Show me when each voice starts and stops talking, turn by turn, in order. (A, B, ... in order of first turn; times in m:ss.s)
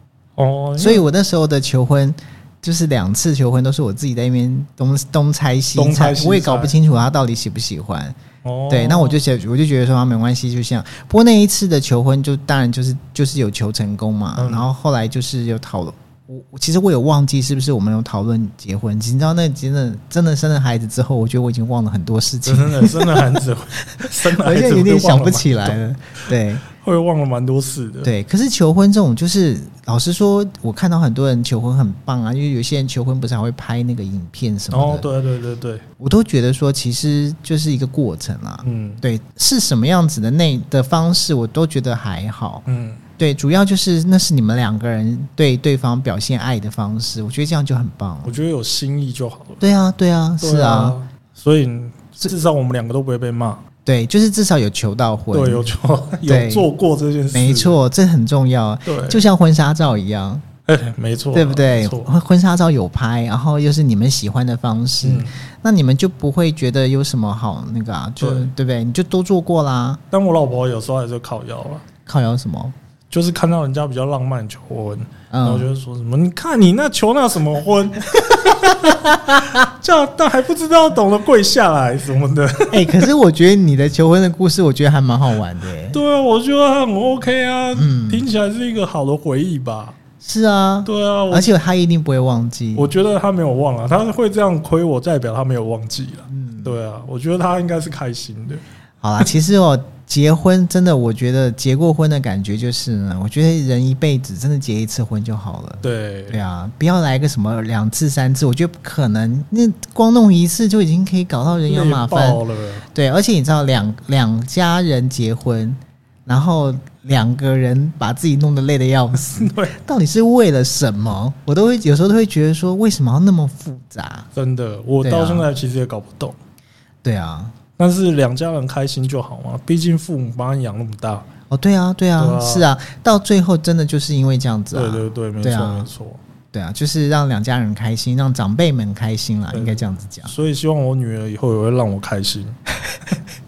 0:00.4-0:01.1 A
0:00.8-0:08.2 B
0:05.8-0:06.7 A
0:08.4-0:09.2 A
0:08.7-0:23.4 B
0:14.4-0:14.7 A
0:22.5-0:25.8 A
0:24.0-0:26.6 B
0:26.7-0:28.1 A
0:28.0-0:35.1 B
0:34.7-0:35.8 A
0:36.0-0:42.6 B
0:38.6-0:39.0 A
0:42.7-0:43.0 A
0:43.2-0:48.3 B
0:48.2-0:49.7 A
0:49.6-0:51.0 B
0:50.4-0:53.6 A
0:53.8-0:55.7 B
0:55.3-0:57.8 A
0:56.2-0:56.7 B
0:57.3-1:00.4 B
0:58.8-0:59.2 A
1:00.7-1:02.1 A
1:01.3-1:10.0 B
1:05.0-1:05.4 A
1:08.2-1:08.5 A
1:10.1-1:11.8 A
1:12.1-1:12.8 B
1:13.1-1:23.1 A
1:15.3-1:15.7 B
1:18.9-1:19.4 B
1:22.7-1:26.0 B
1:25.9-1:30.0 A
1:27.8-1:28.3 B
1:30.2-1:32.9 B
1:30.8-1:31.5 A
1:32.8-1:38.6 A
1:36.3-1:36.7 B
1:39.0-1:52.4 B
1:45.8-1:46.4 A
1:51.6-1:52.8 A
1:52.9-2:04.3 B
1:59.3-1:59.8 A
2:04.4-2:06.4 A
2:05.0-2:05.5 B
2:07.0-2:07.5 B
2:07.8-2:11.3 A
2:11.5-2:15.9 B
2:12.2-2:12.7 A
2:14.7-2:16.2 A
2:16.5-2:20.3 B
2:19.5-2:22.6 A